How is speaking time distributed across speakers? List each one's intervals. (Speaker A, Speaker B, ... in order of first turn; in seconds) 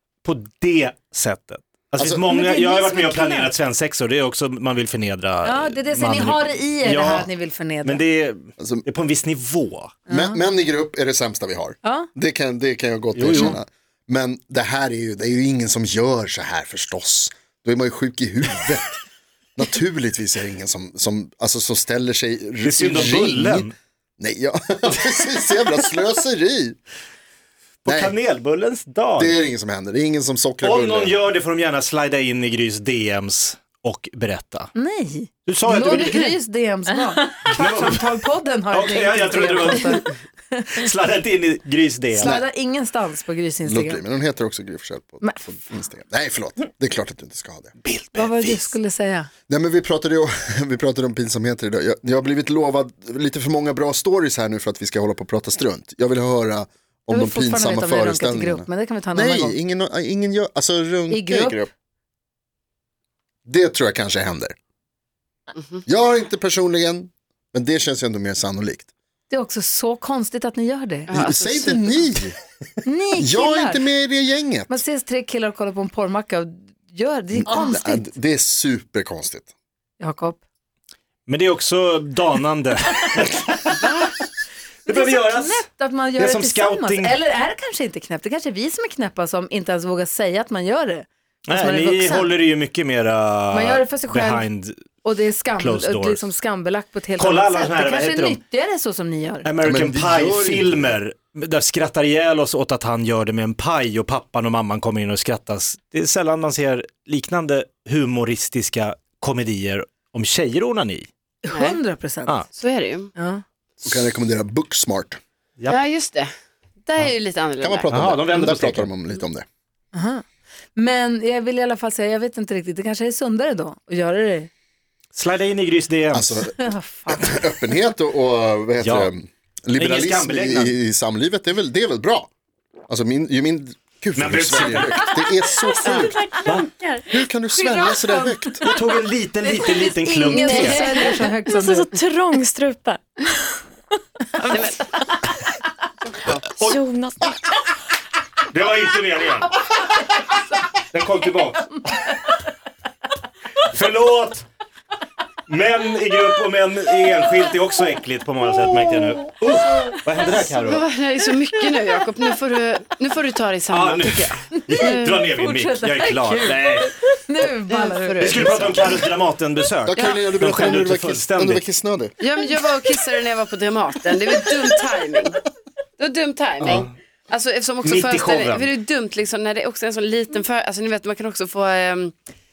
Speaker A: 0.2-7.3, 7.8-9.9, 13.1-13.6, 22.6-23.7, 27.8-29.4, 30.6-34.7, 35.5-36.4, 37.5-38.1, 38.7-40.1, 40.7-42.4, 47.8-48.7, 81.3-83.9, 84.8-85.6, 86.2-87.2, 91.5-94.8, 95.5-96.3, 97.2-98.4, 99.4-111.1, 117.9-118.9, 125.1-126.4, 128.8-129.1, 129.8-130.8, 134.1-135.1, 138.7-140.9, 148.5-149.9, 150.8-152.1, 153.6-154.4, 155.5-160.9, 163.7-166.9, 168.2-171.6, 176.6-176.9, 177.8-178.7
Speaker B: 2.0-2.2, 8.6-8.8, 10.1-19.0, 19.6-26.8, 27.9-28.1, 29.1-31.1, 42.2-42.4, 43.6-47.7, 49.5-61.7, 63.5-64.5, 65.8-68.9, 71.1-72.4, 73.2-74.8, 77.3-79.5, 99.6-101.0, 113.8-115.2, 117.6-119.5, 126.1-132.3, 132.9-136.2, 137.1-138.6, 169.9-172.1
Speaker C: 2.3-3.5, 5.4-8.0, 10.1-10.4, 11.8-12.1, 34.7-40.9, 42.2-44.0, 45.2-45.8, 48.1-49.3, 57.1-59.6, 61.1-61.6, 69.3-71.1, 72.8-73.9, 74.7-78.1, 80.0-80.4, 84.9-92.3, 93.5-94.5, 95.0-99.5, 111.5-112.4, 113.2-113.4, 119.9-120.2, 120.7-124.5, 126.4-127.7, 137.6-138.8, 139.4-141.9, 164.5-168.5
Speaker D: 71.1-71.9, 83.8-84.1, 111.5-111.8, 112.5-113.1, 115.7-116.3, 116.8-118.1, 140.3-141.2, 144.5-144.8, 146.1-146.5, 160.6-165.3, 167.7-169.0, 172.2-175.4, 176.0-182.2
Speaker E: 135.5-137.1, 140.7-145.5, 146.6-147.7